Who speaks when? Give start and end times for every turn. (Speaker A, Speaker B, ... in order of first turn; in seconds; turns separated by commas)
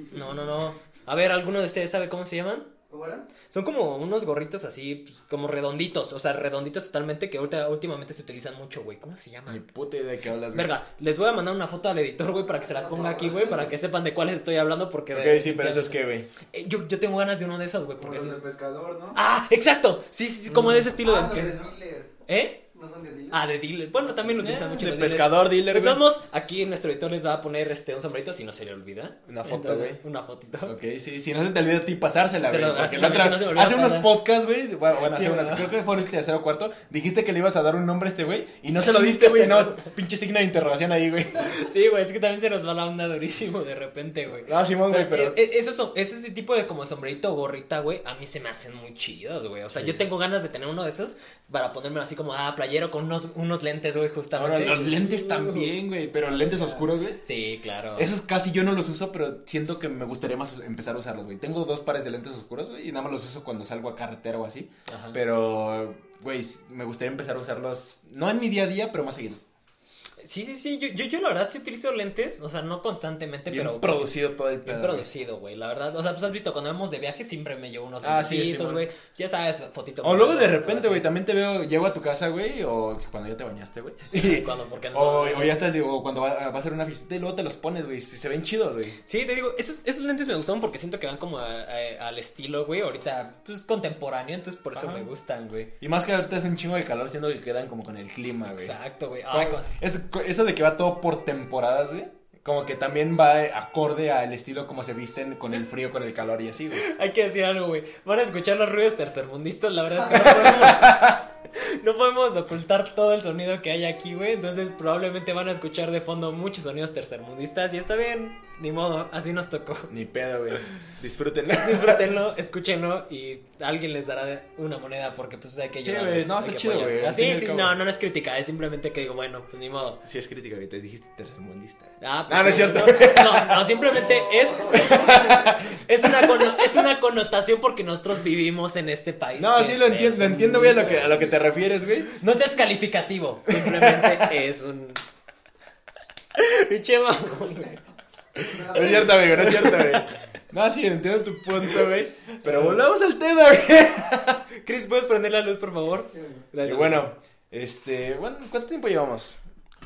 Speaker A: 0.1-2.7, Speaker B: 2.9-3.3, Speaker A: 3.5-9.6, Speaker C: 9.5-10.7, Speaker A: 10.5-18.4, Speaker B: 12.5-13.7, Speaker C: 15.1-16.3, Speaker B: 18.0-19.2, Speaker A: 19.1-21.6, Speaker C: 20.5-20.9, Speaker B: 20.8-22.1, Speaker A: 22.3-22.6, Speaker B: 22.7-23.4, Speaker A: 23.3-30.8, Speaker C: 24.4-26.0, Speaker C: 29.3-30.0, Speaker C: 30.6-41.6, Speaker A: 32.5-34.1, Speaker A: 35.0-35.7, Speaker A: 38.8-39.9, Speaker A: 41.4-55.7, Speaker C: 44.4-45.4, Speaker C: 49.7-50.0, Speaker C: 54.4-57.2, Speaker A: 56.4-58.1, Speaker C: 58.0-69.4, Speaker A: 64.9-65.2, Speaker A: 70.2-74.1, Speaker C: 73.5-75.1, Speaker A: 74.6-81.1, Speaker C: 78.0-78.9, Speaker C: 80.0-89.0, Speaker A: 84.1-85.6, Speaker A: 89.1-95.7, Speaker C: 94.7-95.1, Speaker C: 95.8-98.8, Speaker A: 98.6-99.7, Speaker C: 99.3-106.9, Speaker A: 106.8-119.9, Speaker C: 110.2-111.1, Speaker C: 119.9-122.1, Speaker A: 121.5-130.0, Speaker C: 125.8-127.8, Speaker C: 130.0-133.7, Speaker A: 132.0-141.3, Speaker C: 134.7-136.7, Speaker C: 139.4-142.1, Speaker A: 142.1-145.0, Speaker C: 143.5-144.3, Speaker A: 146.3-147.8, Speaker B: 148.4-149.6, Speaker C: 148.4-154.4, Speaker A: 148.8-150.1, Speaker A: 152.4-152.8, Speaker A: 154.5-157.1, Speaker C: 156.6-159.4